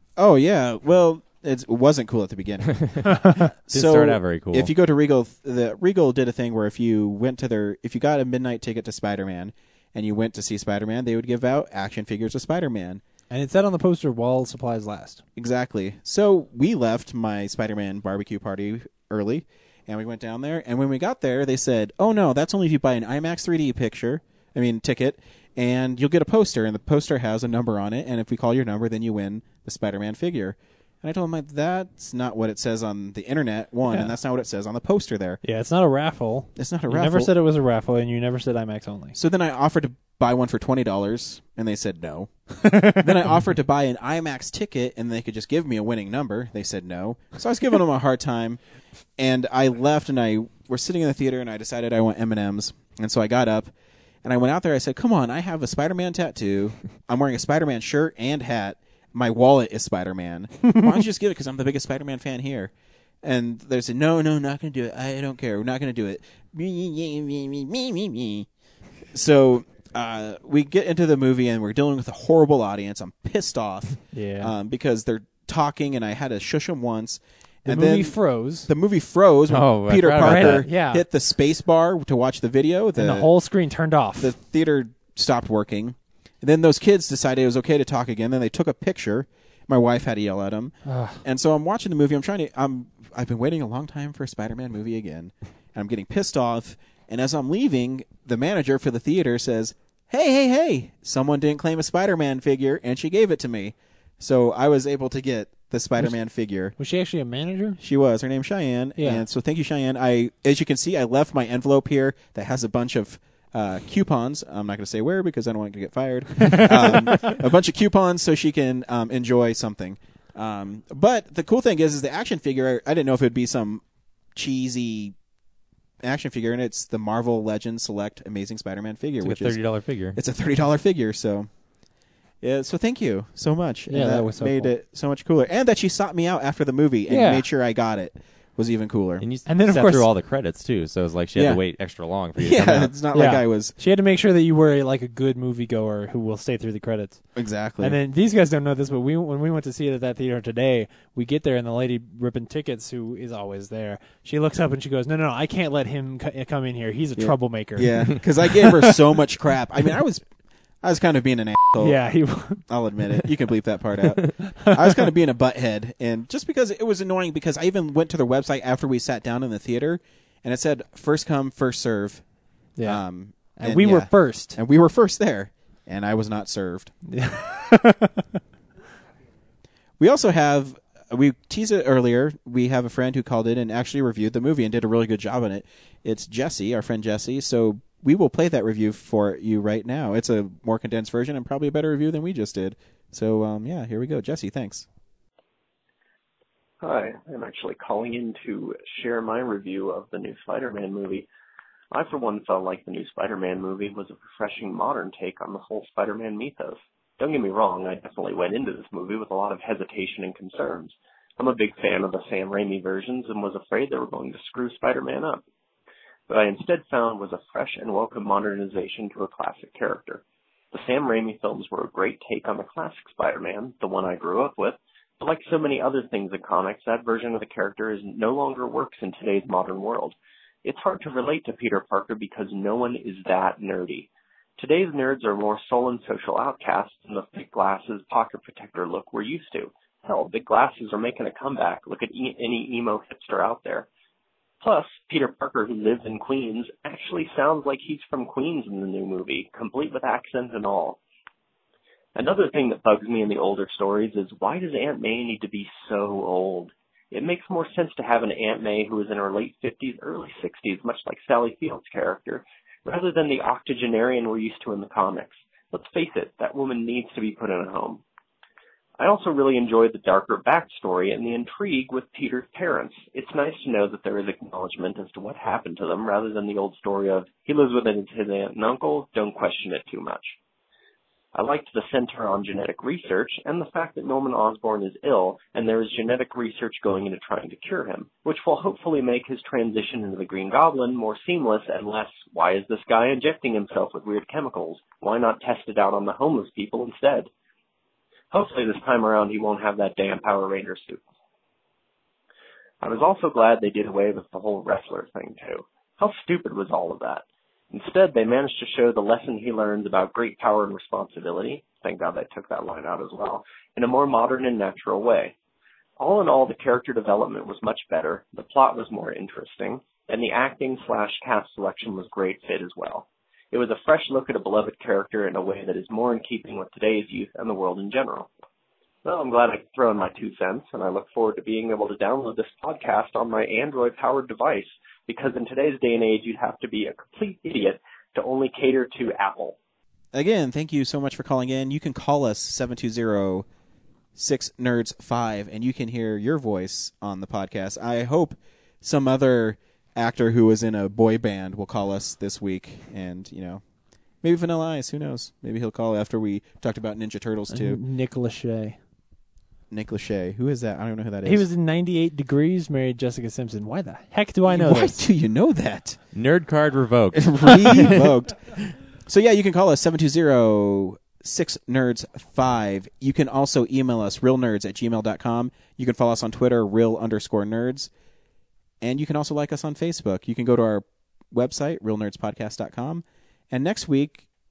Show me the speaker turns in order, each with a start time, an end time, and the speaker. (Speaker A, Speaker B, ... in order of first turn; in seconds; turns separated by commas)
Speaker A: 0.2-3.1, Speaker B: 2.8-3.1, Speaker C: 3.2-3.5, Speaker A: 3.6-13.0, Speaker B: 3.7-4.7, Speaker C: 13.3-15.2, Speaker A: 15.3-35.4, Speaker C: 33.9-34.1, Speaker C: 35.4-39.1, Speaker A: 36.5-37.3, Speaker A: 39.1-48.6, Speaker C: 42.6-43.0, Speaker A: 49.2-53.7, Speaker A: 54.2-62.7, Speaker A: 63.2-68.5, Speaker A: 69.1-83.3, Speaker C: 74.1-74.5, Speaker C: 77.7-78.7, Speaker B: 79.5-80.7, Speaker C: 80.1-81.0, Speaker C: 83.0-84.3, Speaker A: 84.2-106.8, Speaker C: 90.8-91.2, Speaker C: 106.8-107.8, Speaker A: 107.8-125.2, Speaker C: 109.0-109.2, Speaker C: 116.4-117.3, Speaker A: 126.0-131.5, Speaker B: 129.2-130.2, Speaker A: 132.4-139.2, Speaker C: 133.9-134.7, Speaker C: 137.1-137.5, Speaker B: 139.2-142.9, Speaker C: 139.4-140.1, Speaker A: 141.3-141.6, Speaker A: 142.4-143.7, Speaker C: 143.1-147.2, Speaker A: 147.3-148.0, Speaker C: 147.8-159.0, Speaker A: 157.2-160.2, Speaker A: 160.8-162.0, Speaker C: 161.8-163.3, Speaker A: 162.6-172.2, Speaker C: 164.4-165.1, Speaker C: 172.8-174.6, Speaker A: 172.8-176.9, Speaker C: 177.1-178.2, Speaker A: 180.0-194.8, Speaker D: 196.8-201.3, Speaker D: 201.9-215.4, Speaker D: 216.3-243.8, Speaker D: 244.6-251.0, Speaker D: 252.1-268.0, Speaker D: 269.0-280.3, Speaker D: 281.3-297.3, Speaker D: 298.3-301.0, Speaker D: 302.8-315.3, Speaker D: 316.0-328.3, Speaker D: 329.0-339.6, Speaker A: 340.1-343.4, Speaker A: 344.1-353.6, Speaker A: 354.2-357.8, Speaker C: 357.5-358.8, Speaker A: 359.7-361.4, Speaker C: 361.2-365.0, Speaker A: 364.4-366.0, Speaker B: 366.1-368.7, Speaker A: 367.1-368.4, Speaker A: 369.0-377.9, Speaker A: 378.8-384.2